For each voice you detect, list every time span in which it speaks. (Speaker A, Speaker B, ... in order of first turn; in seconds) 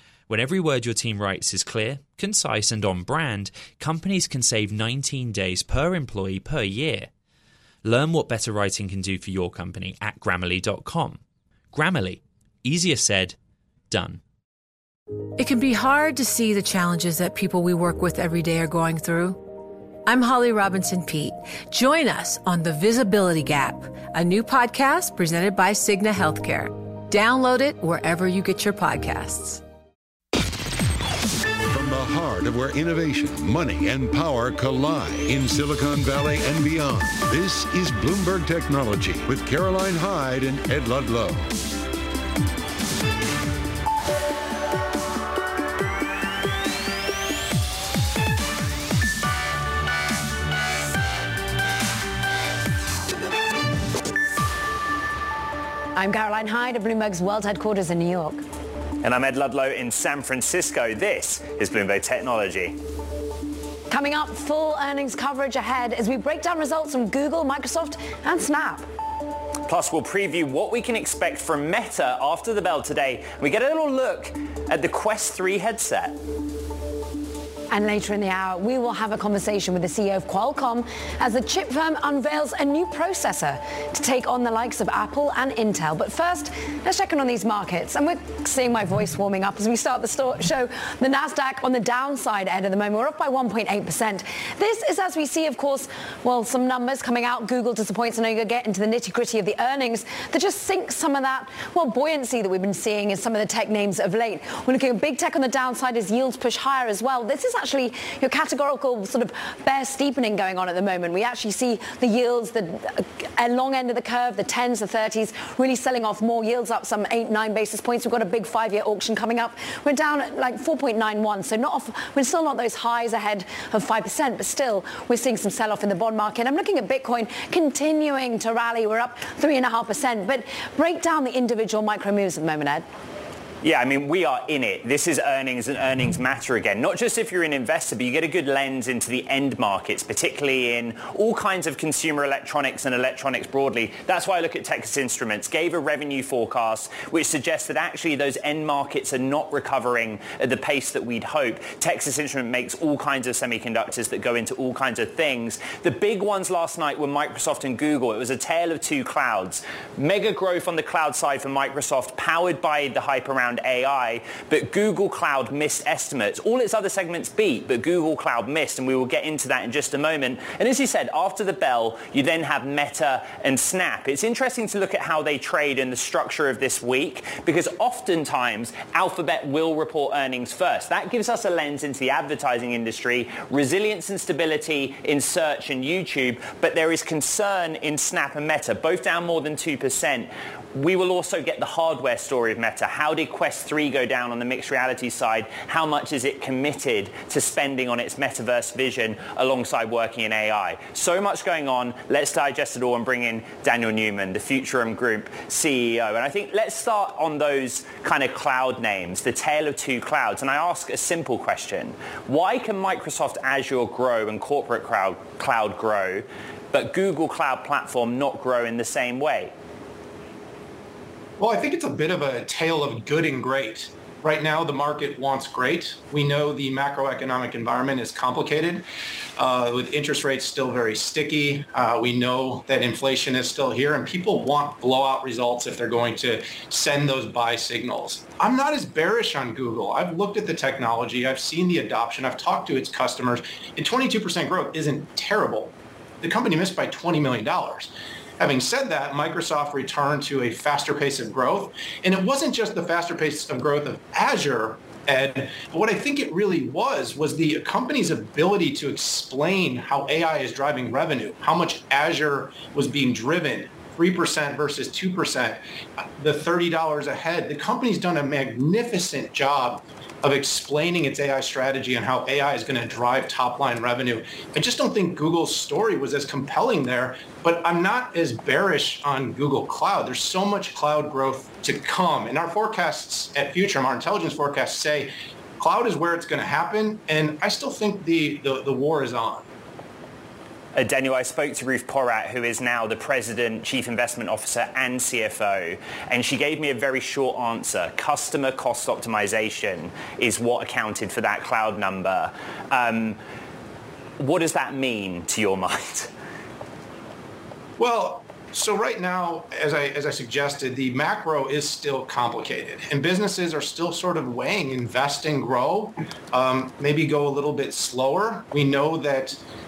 Speaker A: 0.3-7.1, 7.8-11.2, 11.7-13.3, 13.9-14.2
Speaker B: 15.4-19.4, 20.1-29.6
Speaker C: 31.7-41.5
Speaker D: 56.0-58.4, 63.9-68.9, 77.7-132.8
Speaker E: 59.0-62.8, 69.7-76.2, 133.6-219.5, 290.8-303.2, 304.2-306.1
Speaker F: 221.4-228.8, 229.4-265.6, 266.2-289.5, 307.8-319.4